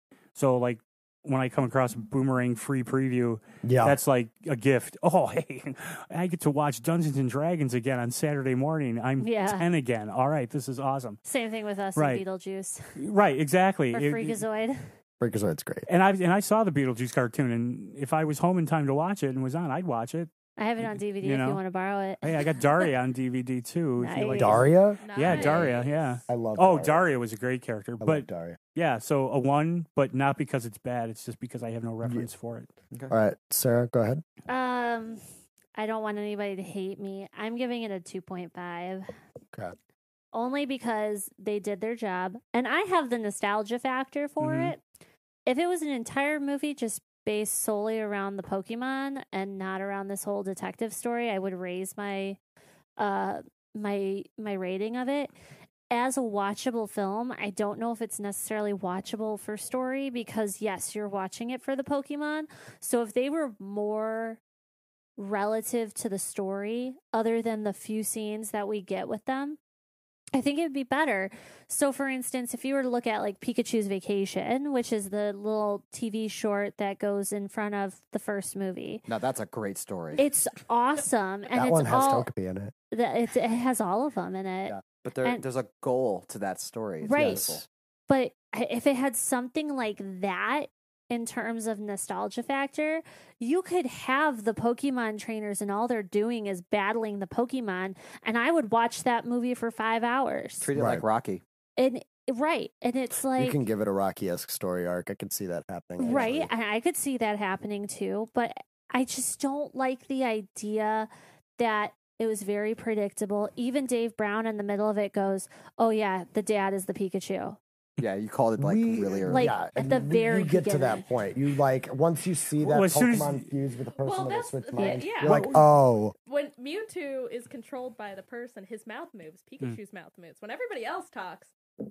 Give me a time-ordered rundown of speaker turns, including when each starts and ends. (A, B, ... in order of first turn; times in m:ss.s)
0:00.4-0:11.2 A
0:03.6-0:04.0 B
0:09.2-0:09.6 C
0:11.2-0:13.0 C
0:12.0-0:12.2 A
0:13.0-0:14.4 A
0:13.9-0:14.8 C
0:15.2-0:15.9 B
0:15.9-0:20.3 A
0:20.6-0:22.4 C
0:21.2-0:21.6 A
0:22.2-0:32.7 A
0:24.0-0:24.7 C
0:24.4-0:25.7 B
0:25.0-0:26.0 D
0:26.3-0:27.1 B
0:28.0-0:28.6 B
0:33.1-0:34.2 B
0:34.5-0:35.2 C
0:35.8-0:39.1 C
0:40.3-0:44.8 C
0:44.4-0:44.7 A
0:45.5-0:52.4 C
0:53.0-0:55.3 C
0:55.9-1:04.4 C
1:05.2-1:09.6 C
1:10.4-1:19.0 C
1:19.1-1:20.2 E
1:20.2-1:22.3 C
1:21.5-1:22.7 B
1:22.9-1:25.4 C
1:25.0-1:27.6 E
1:27.0-1:27.6 C
1:27.2-1:27.6 B
1:28.1-1:40.7 C
1:40.6-1:41.4 E
1:40.8-1:41.0 B
1:41.8-1:43.6 C
1:43.4-1:46.5 B
1:46.0-1:57.6 C
1:58.0-1:59.5 E
1:58.6-2:06.1 B
1:59.3-2:01.0 C
2:02.6-2:03.5 A
2:04.0-2:05.5 D
2:04.8-2:05.5 C
2:06.2-2:11.5 D